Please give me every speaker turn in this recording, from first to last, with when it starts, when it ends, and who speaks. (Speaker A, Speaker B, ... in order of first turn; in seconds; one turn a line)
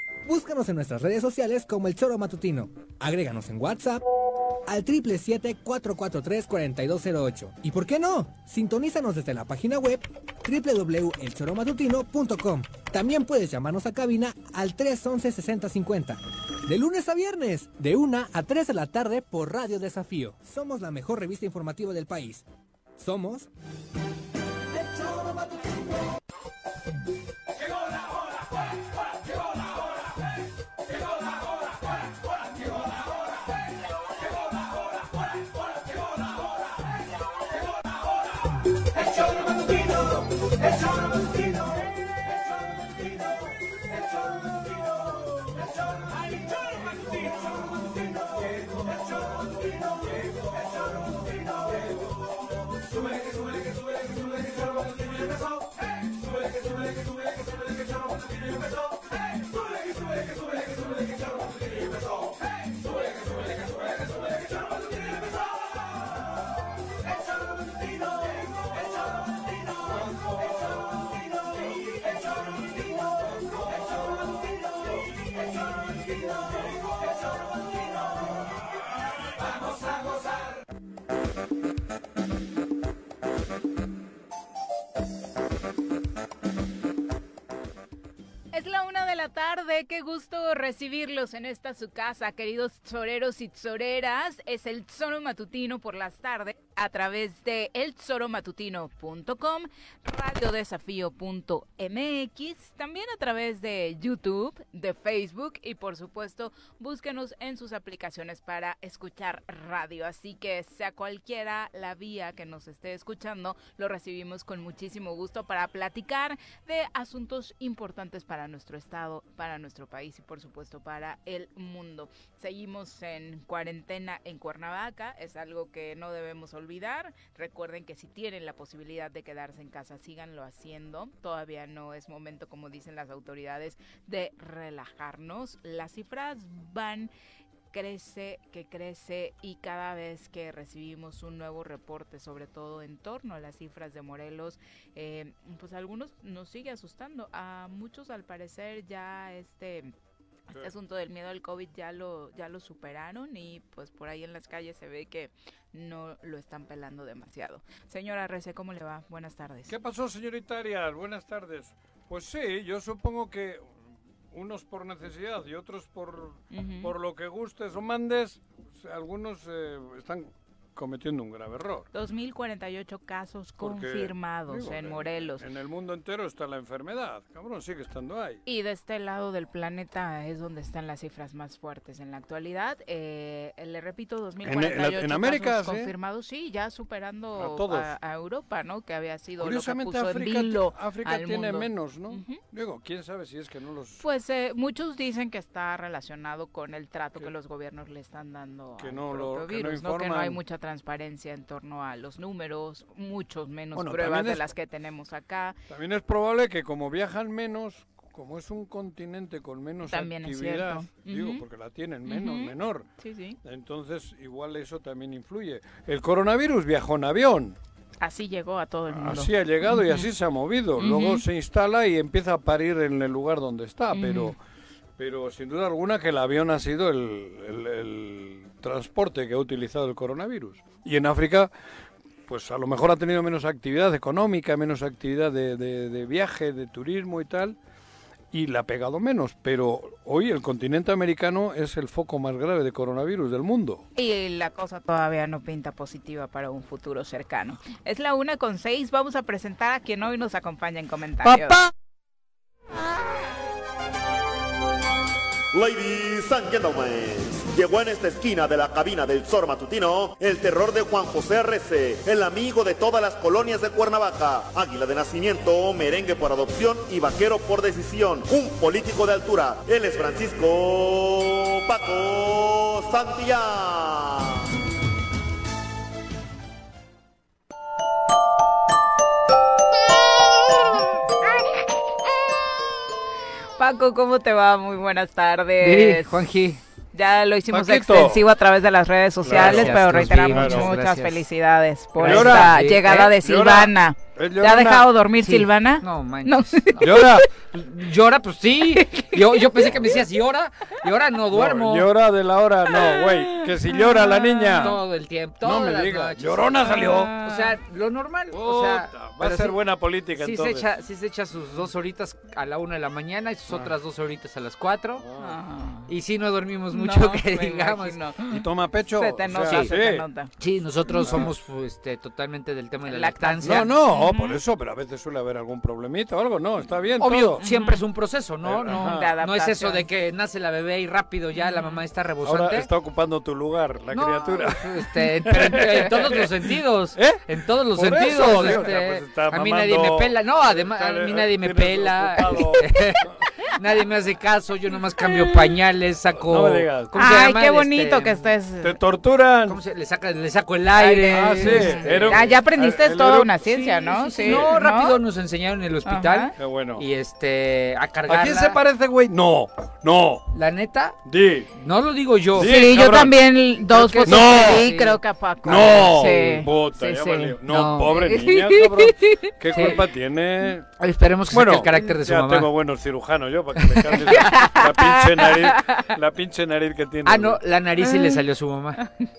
Speaker A: 0.2-4.0
Speaker A: 4.7-22.4
Speaker A: 23.0-23.5
Speaker B: 88.5-137.1
Speaker B: 137.7-149.9
Speaker B: 150.5-159.7
Speaker C: 159.7-163.7
Speaker C: 164.3-171.8
Speaker B: 166.5-166.9
Speaker B: 171.9-175.4
Speaker C: 173.6-178.4
Speaker B: 178.4-192.4
Speaker C: 184.4-185.9
Speaker C: 187.3-187.9
Speaker C: 189.4-194.0
Speaker B: 194.0-205.6
Speaker C: 198.8-200.4
Speaker C: 203.7-204.4
Speaker C: 205.7-212.9
Speaker B: 209.9-211.4
Speaker B: 212.1-213.4
Speaker C: 213.4-217.6
Speaker B: 218.0-220.1
Speaker C: 218.9-224.4
Speaker B: 220.8-221.2
Speaker B: 223.9-224.3
Speaker C: 225.0-231.5
Speaker C: 232.3-237.6
Speaker C: 238.3-243.8
Speaker B: 243.9-251.6
Speaker C: 251.2-251.7
Speaker D: 255.5-274.4
Speaker B: 283.6-286.3
Speaker E: 285.6-286.6
Speaker B: 286.9-297.2
Speaker C: 287.5-288.2
Speaker C: 289.2-290.7
Speaker E: 289.3-291.2
Speaker E: 292.0-293.1
Speaker C: 292.0-292.6
Speaker C: 293.2-294.9
Speaker E: 295.2-301.9
Speaker C: 296.8-297.2
Speaker B: 298.9-299.7
Speaker C: 301.3-304.8
Speaker B: 302.8-304.7
Speaker E: 304.6-309.6
Speaker C: 305.4-307.1
Speaker B: 306.6-307.5
Speaker C: 308.3-310.6
Speaker E: 310.2-315.0
Speaker C: 315.0-315.4
Speaker B: 315.2-315.9
Speaker E: 315.9-318.0
Speaker B: 316.7-320.3
Speaker C: 318.3-320.1
Speaker E: 320.4-323.7
Speaker B: 320.9-321.2
Speaker C: 321.0-321.3
Speaker B: 322.9-324.4
Speaker C: 323.4-327.4
Speaker E: 327.0-332.7
Speaker B: 327.4-327.8
Speaker C: 328.4-329.1
Speaker B: 328.7-329.9
Speaker B: 331.4-331.8
Speaker C: 332.2-334.7
Speaker E: 333.9-348.2
Speaker C: 335.2-336.3
Speaker C: 336.9-343.1
Speaker C: 346.1-346.9
Speaker B: 346.9-348.8
Speaker C: 348.6-349.6
Speaker E: 349.5-352.2
Speaker B: 350.8-355.0
Speaker C: 351.1-353.4
Speaker E: 353.5-358.6
Speaker C: 354.2-354.5
Speaker B: 355.9-356.3
Speaker C: 356.4-356.9
Speaker C: 358.1-360.2
Speaker E: 360.4-361.0
Speaker C: 361.1-361.5
Speaker E: 361.5-362.6
Speaker C: 362.4-363.1
Speaker B: 362.4-366.5
Speaker E: 363.7-365.0
Speaker C: 364.1-364.7
Speaker C: 365.4-370.7
Speaker E: 366.9-368.2
Speaker B: 368.1-369.2
Speaker E: 369.5-369.8
Speaker E: 370.8-372.5
Speaker C: 371.3-377.4
Speaker E: 373.6-374.3
Speaker B: 374.1-375.9
Speaker E: 377.1-378.8
Speaker B: 377.8-378.2